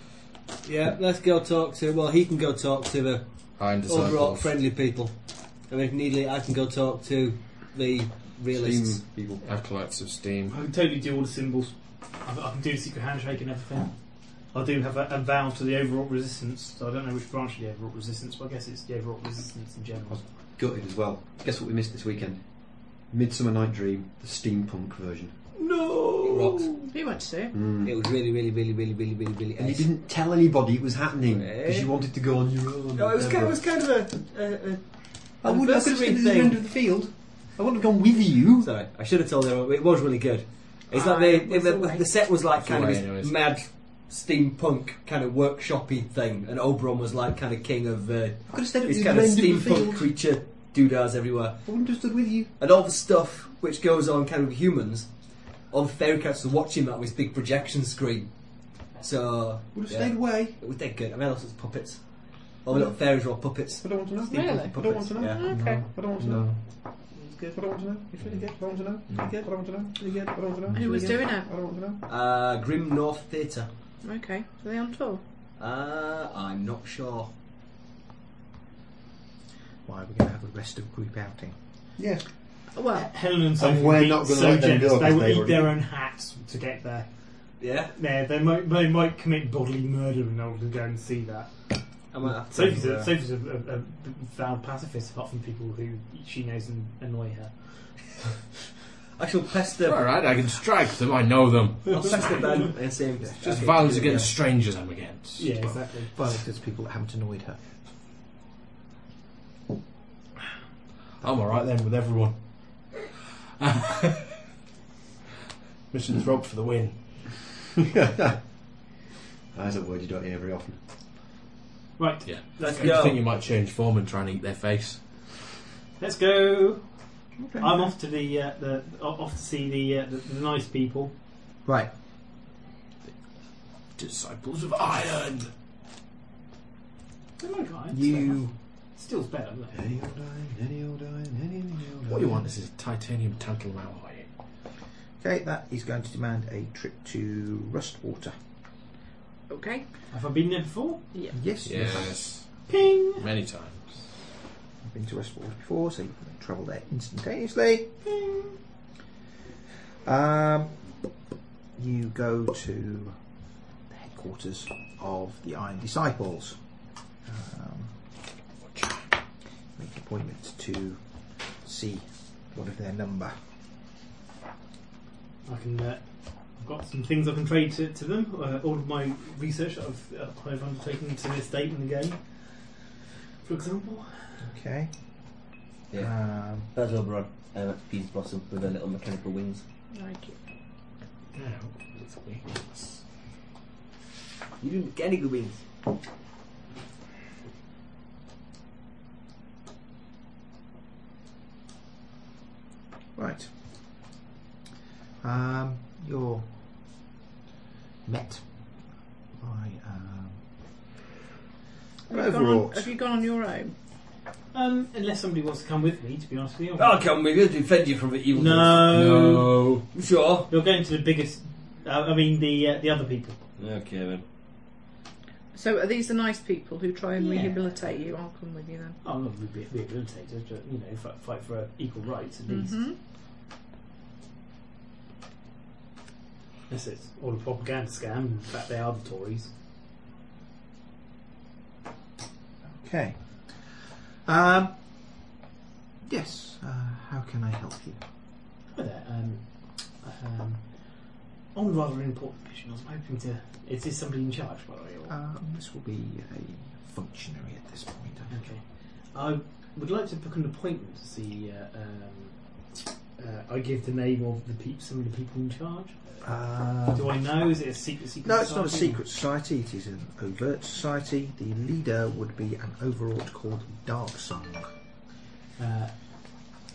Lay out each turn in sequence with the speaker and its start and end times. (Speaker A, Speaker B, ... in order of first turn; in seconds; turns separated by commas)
Speaker A: 0.6-9.0, Speaker B: 3.6-4.6, Speaker C: 8.5-9.4, Speaker B: 9.4-10.6, Speaker D: 10.5-20.2, Speaker C: 20.1-25.6, Speaker A: 25.6-26.9, Speaker E: 26.9-27.6, Speaker C: 27.5-27.9, Speaker A: 27.8-30.0, Speaker C: 29.6-33.6, Speaker A: 31.3-32.0, Speaker A: 33.0-36.6, Speaker C: 35.4-38.7, Speaker A: 38.6-52.0, Speaker E: 40.9-42.2, Speaker B: 42.4-43.5, Speaker C: 48.5-50.1, Speaker C: 51.6-52.5, Speaker A: 52.6-65.4, Speaker C: 59.7-60.6, Speaker C: 63.8-72.0, Speaker E: 64.2-65.8, Speaker B: 65.5-66.6, Speaker A: 67.2-67.6, Speaker A: 69.1-70.3, Speaker E: 70.7-71.5, Speaker A: 72.0-73.7, Speaker E: 74.0-75.2, Speaker A: 75.6-77.3, Speaker F: 79.8-81.6, Speaker C: 82.0-82.3, Speaker E: 82.7-83.1, Speaker D: 82.9-98.0, Speaker C: 83.6-85.7, Speaker A: 87.6-87.9, Speaker A: 92.1-93.1, Speaker A: 99.2-100.1, Speaker B: 99.8-102.6, Speaker A: 101.9-104.3, Speaker F: 103.2-103.7, Speaker B: 103.4-105.6, Speaker D: 105.4-106.1, Speaker F: 106.1-107.6, Speaker B: 111.2-114.4, Speaker B: 115.9-117.5, Speaker C: 118.0-118.4, Speaker C: 119.5-120.8, Speaker D: 122.0-123.1, Speaker B: 122.2-125.3, Speaker A: 122.6-123.2, Speaker D: 126.0-131.1, Speaker F: 127.4-127.9, Speaker F: 131.7-131.9, Speaker B: 133.8-135.5, Speaker D: 137.4-139.8, Speaker F: 137.9-138.5, Speaker C: 139.7-142.4, Speaker B: 142.1-144.3, Speaker F: 145.2-148.4, Speaker E: 149.5-149.9, Speaker D: 150.1-151.1, Speaker F: 151.3-152.3, Speaker B: 151.6-154.2, Speaker D: 152.7-153.2, Speaker F: 154.8-157.9, Speaker D: 158.1-158.5, Speaker F: 160.0-161.0, Speaker F: 161.8-163.3, Speaker F: 163.9-168.0, Speaker F: 169.8-173.4, Speaker D: 175.4-182.9, Speaker D: 183.4-184.4, Speaker F: 184.4-185.4, Speaker A: 185.9-189.6, Speaker F: 185.9-186.7, Speaker E: 189.9-190.4, Speaker B: 191.3-193.0, Speaker A: 194.6-195.6, Speaker F: 203.2-204.1, Speaker F: 205.2-207.0, Speaker F: 208.1-210.8, Speaker F: 212.1-212.9, Speaker E: 212.1-213.7, Speaker D: 214.5-217.1, Speaker A: 216.8-219.0, Speaker D: 218.3-219.7, Speaker B: 218.9-219.9, Speaker A: 219.9-220.5, Speaker D: 220.5-223.4, Speaker A: 223.6-224.2, Speaker E: 225.5-229.0, Speaker D: 227.2-227.6, Speaker D: 229.0-232.8, Speaker E: 232.5-233.0, Speaker D: 236.7-239.5, Speaker F: 242.7-245.2, Speaker F: 246.0-248.0, Speaker D: 248.7-255.2, Speaker F: 255.1-258.5, Speaker D: 258.3-266.2, Speaker F: 266.2-267.2, Speaker D: 266.9-269.0, Speaker F: 268.2-274.7, Speaker D: 275.6-276.5